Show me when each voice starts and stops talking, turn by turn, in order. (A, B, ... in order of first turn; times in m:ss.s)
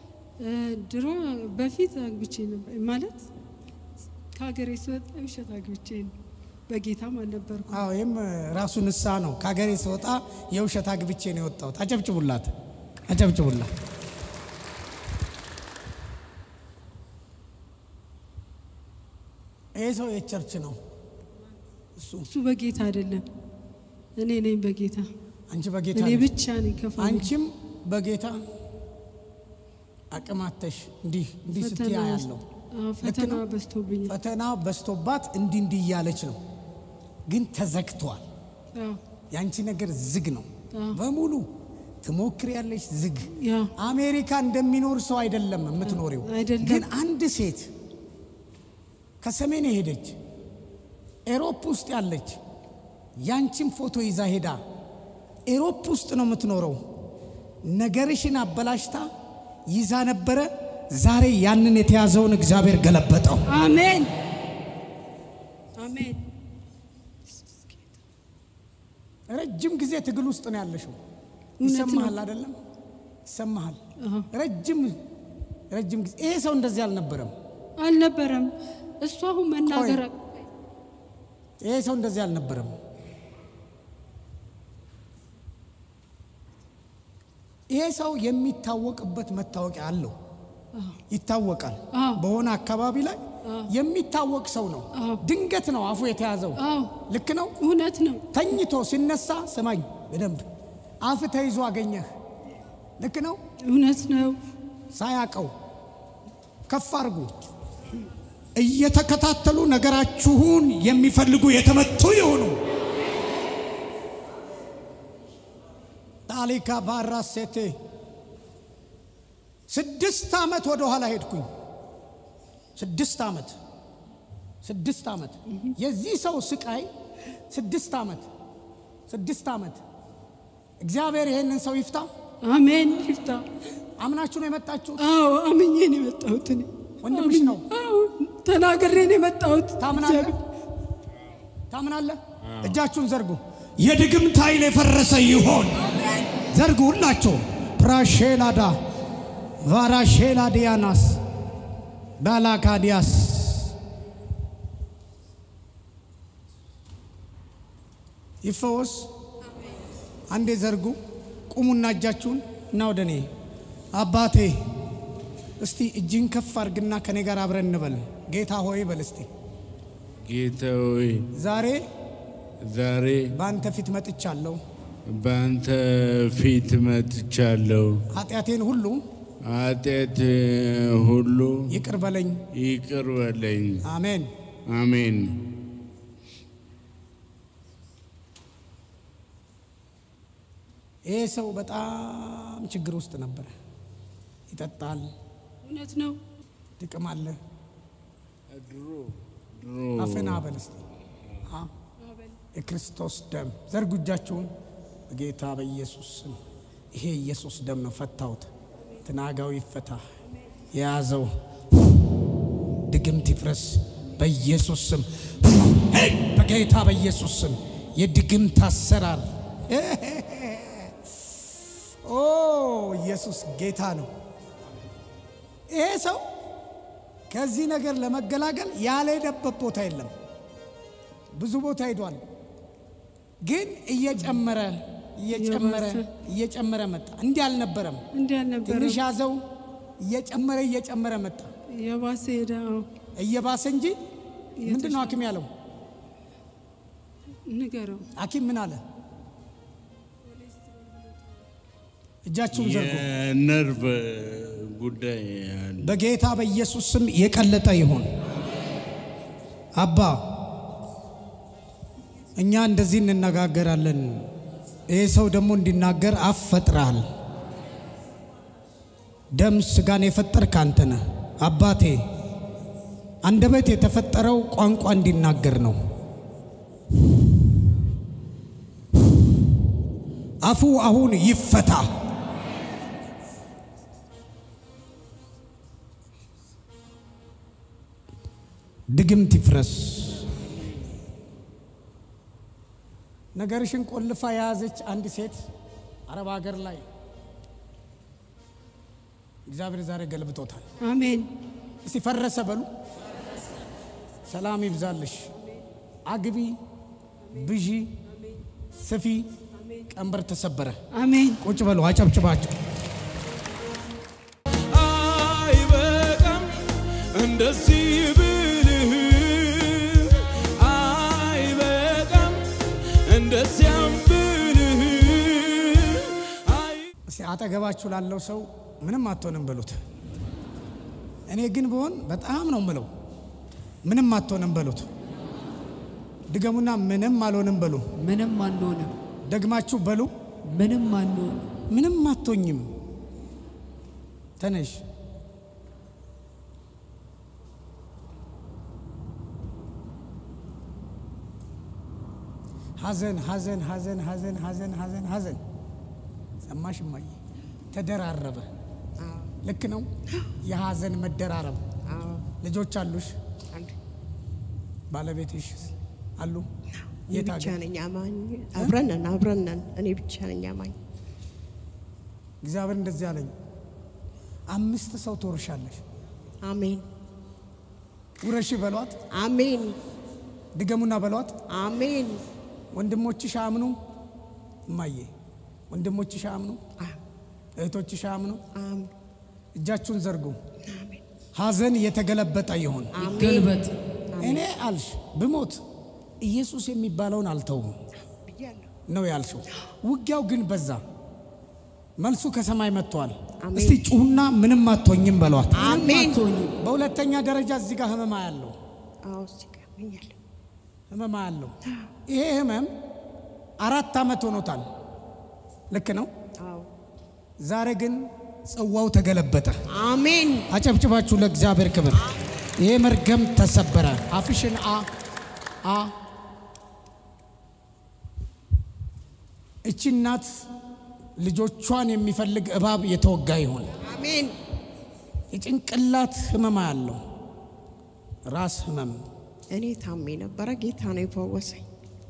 0:00.4-0:03.2 A
0:04.3-0:06.1 A
0:06.7-0:07.8 A
0:07.7-0:12.5 B
0:13.1-0:13.7 B
0:19.8-0:20.8 B
0:22.0-0:22.3 B
0:22.3-0:23.2 A
0:24.2-0:25.1 A
0:25.5-0:26.4 B
0:25.9-0:27.3 A
0:27.0-0:28.4 B
0:30.1-0:32.4 B
0:31.5-0:34.1 A
0:33.0-0:33.4 B
0:34.1-0:36.4 B
0:37.3-0:38.2 B
0:38.7-0:39.0 A
0:39.3-0:41.5 B
0:40.7-0:41.0 A
0:42.0-0:47.7 B
0:43.4-0:43.7 A
0:45.9-0:46.9 A
0:49.2-0:50.2 B
0:51.3-0:52.4 B
0:53.2-0:54.6 B
0:55.5-0:56.8 B
0:57.6-0:59.1 B
0:59.7-1:03.4 B
1:03.5-1:04.1 A
1:05.8-1:06.2 A
1:09.3-1:11.0 B
1:11.6-1:12.2 A
1:11.6-1:12.6 B
1:13.3-1:13.8 B
1:14.0-1:14.3 A
1:14.3-1:15.0 B
1:15.7-1:17.3 B
1:17.8-1:20.1 A
1:19.6-1:20.0 B
1:21.6-1:22.7 B
1:27.7-1:30.1 B
1:30.7-1:31.0 A
1:31.1-1:37.6 B
1:31.9-1:32.2 A
1:33.4-1:33.7 A
1:34.9-1:35.2 A
1:36.6-1:36.9 A
1:37.6-1:38.2 A
1:38.3-1:40.4 B
1:41.0-1:42.1 B
1:43.0-1:43.4 B
1:43.6-1:44.4 A
1:44.9-1:45.5 B
1:46.7-1:47.3 B
1:48.6-1:52.6 B
1:56.3-1:57.7 B
1:59.7-2:01.5 B
2:02.8-2:03.6 B
2:04.6-2:06.9 B
2:07.5-2:08.3 B
2:09.1-2:09.8 B
2:10.8-2:12.1 B
2:12.4-2:13.4 A
2:14.0-2:15.0 B
2:15.0-2:20.4 A
2:17.0-2:17.6 B
2:19.8-2:20.4 B
2:21.7-2:25.8 B
2:26.3-2:28.8 B
2:29.6-2:31.2 B
2:32.2-2:33.7 B
2:38.4-2:39.1 B
2:40.3-2:41.0 B
2:41.5-2:43.3 B
2:43.9-2:44.6 B
2:45.6-2:49.3 B
2:50.2-2:51.3 C
2:51.3-2:51.8 B
2:52.6-2:53.3 C
2:53.3-2:54.6 B
2:55.1-2:58.0 C
2:58.1-2:59.0 B
2:59.4-3:01.8 C
3:01.7-3:02.4 B
3:02.5-3:03.8 C
3:03.8-3:04.3 B
3:04.7-3:05.4 C
3:11.1-3:13.5 B
3:14.5-3:15.1 B
3:15.6-3:16.2 A
3:16.8-3:17.4 B
3:18.5-3:20.4 C
3:20.0-3:20.8 B
3:21.4-3:21.7 B
3:22.5-3:24.5 B
3:25.1-3:26.4 B
3:26.9-3:28.5 B
3:29.0-3:30.0 B
3:30.7-3:31.3 B
3:32.9-3:40.9 B
3:42.0-3:44.1 B
3:45.7-3:46.2 B
3:47.3-3:50.1 B
3:51.3-3:52.2 B
3:53.4-3:58.0 B
3:55.3-3:56.1 A
3:58.1-3:59.0 A
3:58.6-3:59.4 B
4:00.0-4:01.5 B
4:01.7-4:02.9 A
4:03.2-4:04.0 B
4:04.6-4:05.2 A
4:04.6-4:05.5 B
4:07.5-4:08.1 A
4:08.2-4:08.8 B
4:12.3-4:13.1 B
4:12.5-4:16.0 C
4:15.8-4:18.1 B
4:19.8-4:20.2 B
4:22.4-4:24.3 B
4:24.9-4:27.0 B
4:29.3-4:32.0 B
4:33.2-4:35.8 B
4:40.4-4:41.9 B
4:48.9-4:50.3 B
4:53.3-4:55.5 B
4:56.1-4:56.8 B
4:59.5-5:00.6 B
5:00.8-5:01.3 A
5:01.8-5:02.7 B
5:04.3-5:05.3 B
5:06.0-5:06.6 B
5:07.3-5:07.9 B
5:08.8-5:09.2 B
5:09.9-5:10.8 B
5:10.9-5:11.4 A
5:11.4-5:12.5 B
5:14.7-5:26.8 D
5:27.1-5:29.8 B
5:31.3-5:32.9 B
5:33.8-5:34.9 B
5:36.3-5:37.8 B
5:38.0-5:38.9 E
5:39.3-5:40.1 B
5:40.5-5:41.5 E
5:41.7-5:42.7 B
5:44.4-5:44.8 B
5:52.8-5:55.4 B
5:56.4-5:57.1 B
5:57.7-5:58.4 B
5:59.0-5:59.3 F
5:59.4-5:59.9 B
6:00.4-6:01.6 B
6:01.9-6:02.3 F
6:02.4-6:03.2 B
6:04.9-6:06.5 B
6:06.8-6:10.8 F
6:07.1-6:07.6 B
6:12.4-6:13.3 B
6:14.5-6:15.8 B
6:16.4-6:16.8 F
6:18.2-6:19.0 B
6:19.1-6:19.8 F
6:20.5-6:21.3 B
6:21.5-6:22.2 F
6:22.7-6:23.8 B
6:24.7-6:25.1 B
6:25.7-6:26.6 B
6:27.6-6:28.4 B
6:28.5-6:28.9 F
6:29.6-6:30.4 B
6:30.6-6:31.0 F
6:31.4-6:33.0 B
6:32.9-6:33.6 F
6:33.0-6:33.7 E
6:34.1-6:34.5 F
6:34.2-6:35.6 B
6:36.2-6:37.8 B
6:38.0-6:38.7 F
6:38.9-6:40.8 B
6:42.0-6:48.5 B
6:43.4-6:43.8 F
6:45.5-6:46.5 F
6:49.0-6:50.2 F
6:50.9-6:51.6 B
6:52.1-6:52.7 B
6:53.6-6:54.6 B
6:55.7-6:56.1 B
6:56.4-6:56.7 F
6:57.4-6:59.6 B
6:59.7-7:00.5 F
7:00.5-7:02.0 B
7:02.0-7:02.3 F
7:02.6-7:04.9 B
7:05.6-7:05.9 B
7:09.6-7:10.4 B
7:11.2-7:13.7 B
7:13.8-7:14.4 F
7:15.3-7:17.0 B
7:18.3-7:19.0 B
7:19.5-7:21.6 F